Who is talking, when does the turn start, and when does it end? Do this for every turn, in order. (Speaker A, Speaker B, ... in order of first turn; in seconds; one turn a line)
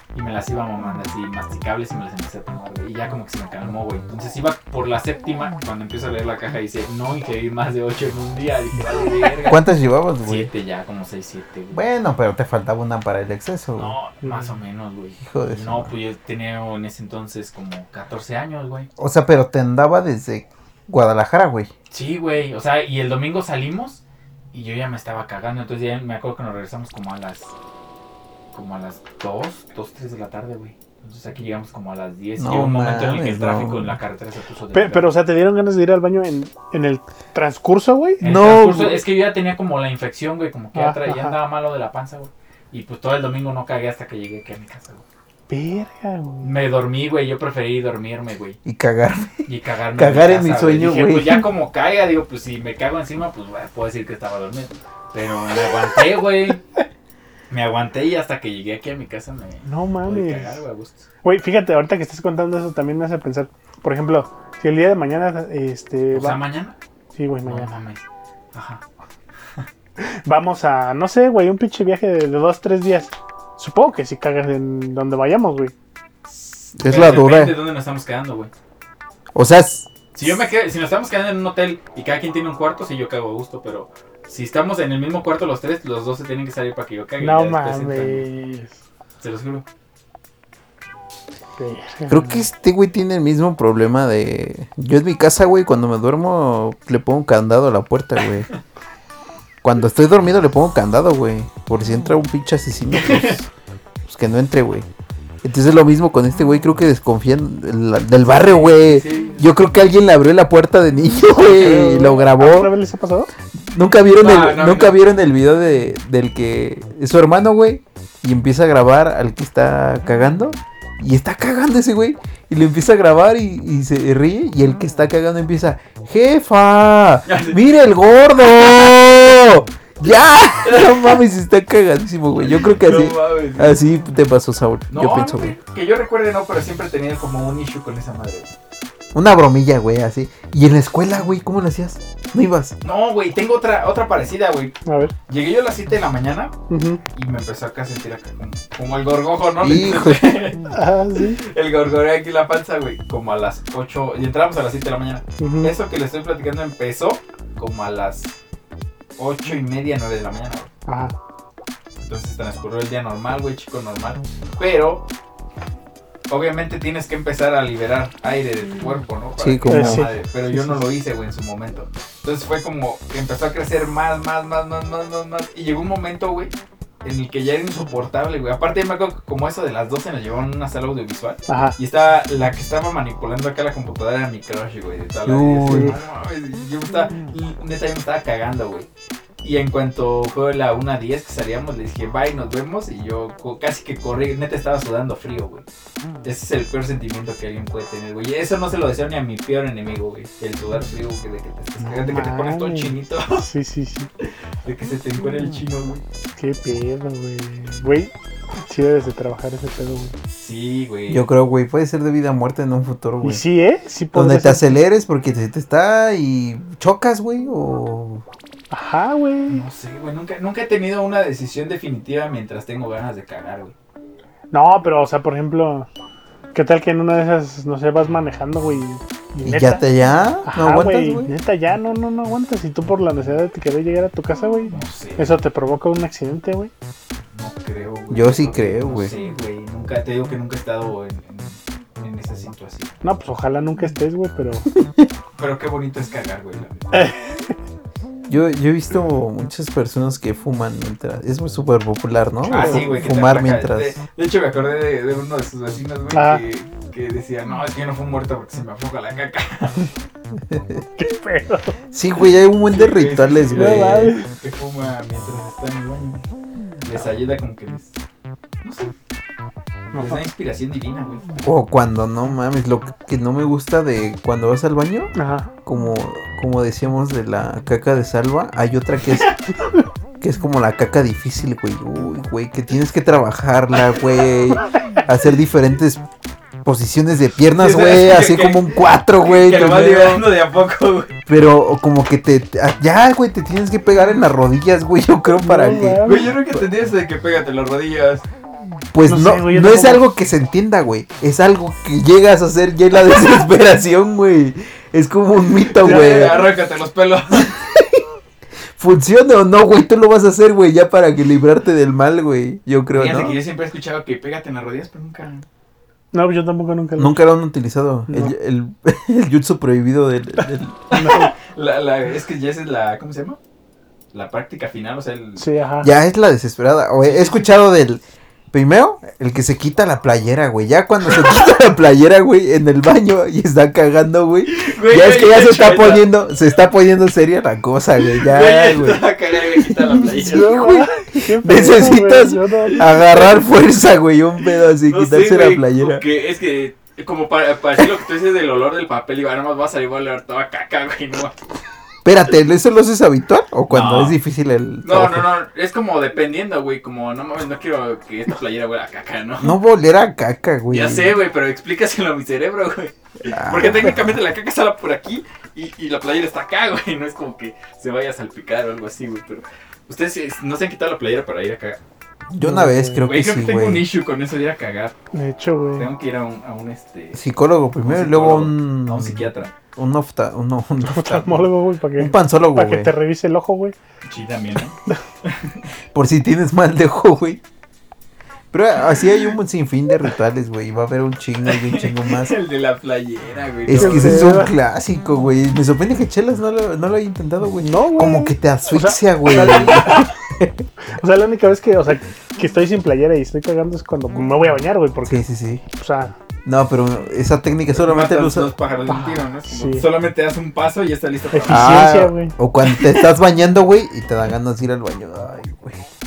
Speaker A: 0.1-9.6
Speaker B: 9.5-10.5
Speaker A: 10.2-11.8
Speaker B: 11.7-13.9
Speaker A: 13.8-18.9
Speaker C: 14.2-14.5
Speaker B: 15.2-15.9
Speaker B: 19.0-21.7
Speaker A: 21.9-27.5
Speaker A: 28.5-35.1
Speaker B: 32.4-34.0
Speaker C: 34.7-38.2
Speaker A: 38.2-45.0
Speaker B: 38.2-39.0
Speaker C: 40.8-41.4
Speaker C: 45.5-46.5
Speaker A: 46.4-48.6
Speaker B: 48.6-51.5
Speaker A: 49.5-56.6
Speaker A: 57.5-61.1
Speaker C: 59.7-60.6
Speaker C: 61.2-66.4
Speaker A: 66.1-66.8
Speaker C: 67.1-67.7
Speaker A: 67.5-68.8
Speaker C: 70.0-75.7
Speaker A: 76.3-78.5
Speaker B: 76.8-77.6
Speaker B: 79.3-79.9
Speaker A: 80.2-88.3
Speaker C: 87.2-88.8
Speaker A: 89.2-89.6
Speaker C: 91.6-92.5
Speaker B: 92.1-98.5
Speaker B: 99.6-103.5
Speaker A: 102.9-103.4
Speaker B: 104.0-104.9
Speaker B: 105.4-112.7
Speaker A: 108.2-109.6
Speaker C: 111.5-113.3
Speaker B: 113.7-135.6
Speaker A: 114.2-115.0
Speaker A: 127.3-127.6
Speaker A: 130.6-131.2
Speaker A: 132.4-133.8
Speaker A: 134.9-138.5
Speaker B: 139.1-142.8
Speaker A: 142.8-144.8
Speaker C: 144.9-145.1
Speaker A: 145.3-146.5
Speaker C: 146.7-147.0
Speaker A: 147.1-150.7
Speaker B: 149.6-150.4
Speaker C: 150.7-151.4
Speaker A: 151.4-158.3
Speaker C: 155.4-155.8
Speaker A: 159.2-160.7
Speaker C: 160.9-161.2
Speaker A: 162.0-165.1
Speaker A: 166.3-188.9
Speaker B: 169.4-170.1
Speaker C: 169.7-170.8
Speaker C: 181.5-181.8
Speaker B: 185.3-185.9
Speaker A: 189.4-195.7
Speaker A: 196.2-203.5
Speaker C: 201.8-204.1
Speaker A: 204.2-206.0
Speaker C: 206.4-210.2
Speaker A: 210.3-211.3
Speaker B: 211.1-213.4
Speaker C: 213.2-214.7
Speaker B: 214.1-218.2
Speaker C: 218.7-219.6
Speaker A: 219.5-223.8
Speaker C: 224.5-225.9
Speaker C: 226.5-229.8
Speaker B: 229.4-231.3
Speaker C: 230.4-236.7
Speaker A: 234.7-235.4
Speaker A: 237.3-243.0
Speaker B: 238.1-239.2
Speaker C: 243.0-244.7
Speaker B: 244.7-245.1
Speaker A: 245.4-247.1
Speaker C: 246.9-247.5
Speaker B: 248.3-253.9
Speaker A: 252.4-259.9
Speaker C: 252.5-253.1
Speaker C: 256.1-256.4
Speaker B: 260.5-260.9
Speaker C: 261.0-261.8
Speaker B: 261.9-264.1
Speaker A: 262.6-266.2
Speaker C: 263.5-264.3
Speaker A: 266.9-267.9
Speaker A: 268.6-268.9
Speaker C: 269.9-270.3
Speaker A: 269.9-271.3
Speaker B: 271.4-275.1
Speaker C: 275.1-275.5
Speaker B: 275.7-279.3
Speaker B: 280.2-286.0
Speaker B: 286.6-290.3
Speaker A: 287.5-291.2
Speaker B: 291.3-296.6
Speaker C: 295.4-296.3
Speaker A: 296.0-298.2
Speaker B: 298.9-306.5
Speaker C: 299.1-300.1
Speaker A: 305.7-307.6
Speaker B: 307.4-308.0
Speaker B: 308.8-313.4
Speaker A: 312.9-315.5
Speaker C: 316.1-317.2
Speaker B: 317.0-321.0
Speaker C: 318.1-318.3
Speaker A: 320.9-323.4
Speaker C: 320.9-321.3
Speaker A: 324.1-325.4
Speaker C: 325.4-325.9
Speaker B: 325.8-339.1
Speaker A: 327.0-327.5
Speaker A: 334.5-336.1
Speaker A: 338.0-340.6
Speaker B: 339.6-346.0
Speaker C: 340.1-342.8
Speaker A: 342.7-343.4
Speaker A: 344.4-351.3
Speaker B: 352.0-355.3
Speaker A: 353.7-354.2
Speaker A: 354.8-359.6
Speaker B: 359.4-361.2
Speaker A: 360.7-371.8
Speaker B: 363.3-364.0
Speaker B: 372.3-373.9
Speaker C: 372.4-373.0
Speaker A: 373.0-375.0
Speaker C: 375.1-375.9
Speaker A: 375.8-377.2
Speaker B: 377.1-382.9
Speaker A: 377.8-379.5
Speaker C: 380.8-383.8
Speaker A: 384.0-385.6
Speaker B: 385.9-387.4
Speaker B: 388.5-392.4
Speaker A: 391.4-394.3
Speaker B: 393.7-400.7
Speaker C: 393.7-394.6
Speaker C: 397.6-400.1
Speaker C: 400.9-406.1
Speaker B: 405.1-405.6
Speaker B: 406.4-408.5
Speaker A: 407.7-411.8
Speaker C: 408.9-409.9
Speaker C: 411.3-412.3
Speaker B: 411.5-415.9
Speaker A: 412.6-413.1